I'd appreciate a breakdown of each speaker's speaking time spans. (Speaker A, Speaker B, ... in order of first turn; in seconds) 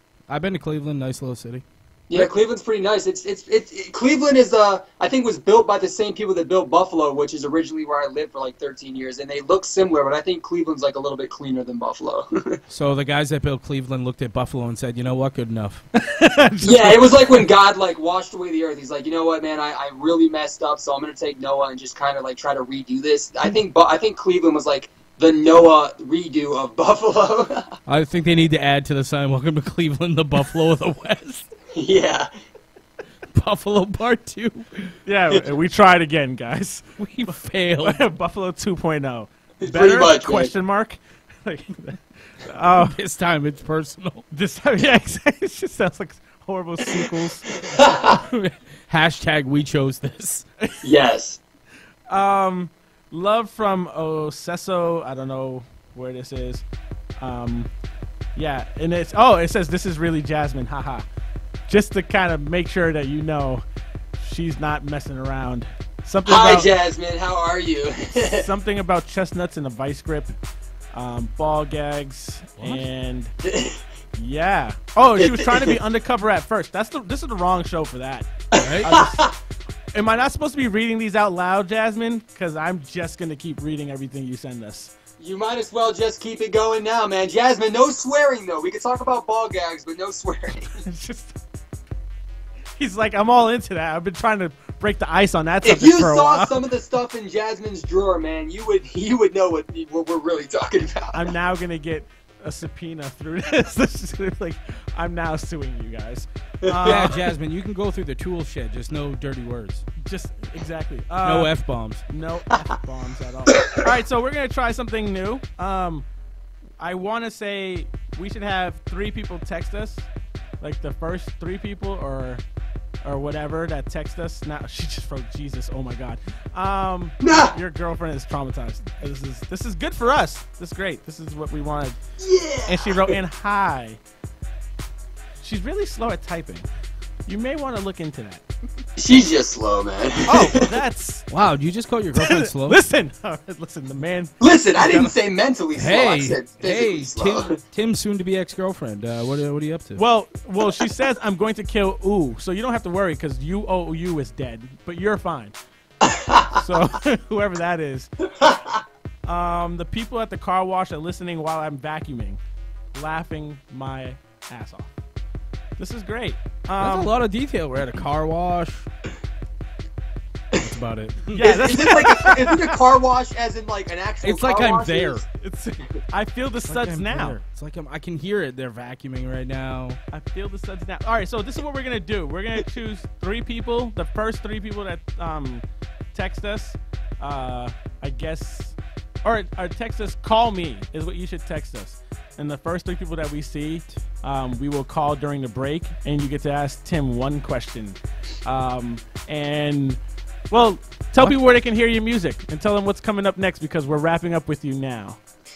Speaker A: 0.3-2.3, 12.7-15.8, 27.9-31.5, 33.3-34.9, 37.0-38.0, 42.8-44.2, 48.9-50.4, 72.6-72.8, 78.5-78.9, 106.8-109.8, 111.2-112.0, 141.3-142.8, 145.8-150.0, 166.8-168.9, 170.6-172.3, 174.2-175.3, 176.7-180.0
Speaker B: 2.1-12.6, 16.6-27.7, 31.7-32.3, 39.6-40.5, 47.8-48.2, 50.8-51.4, 66.2-68.5, 73.4-73.8, 75.2-75.8, 78.5-79.3, 85.2-90.8, 95.6-101.3, 106.6-107.1, 127.2-127.5, 132.2-133.1, 139.0-140.7, 144.4-147.6, 156.0-156.6, 171.4-175.2
Speaker C: 16.0-17.5, 35.0-43.0, 44.3-48.5, 52.1-56.6, 57.2-57.7, 58.3-61.0, 61.7-63.6, 64.2-66.7, 68.2-70.3, 70.9-73.3, 74.1-79.3, 79.9-84.9, 90.7-91.4, 92.8-96.6, 101.1-107.2, 110.0-111.5, 112.0-116.1, 116.8-120.0, 120.6-122.4, 123.0-132.0, 132.7-134.0, 135.4-136.7, 137.2-138.4, 140.3-141.3, 142.1-145.1, 150.0-155.5, 156.5-158.1, 159.2-162.4, 162.9-164.9, 165.8-167.1, 171.3-172.6, 175.4-177.4, 180.1-200.0, 200.5-205.2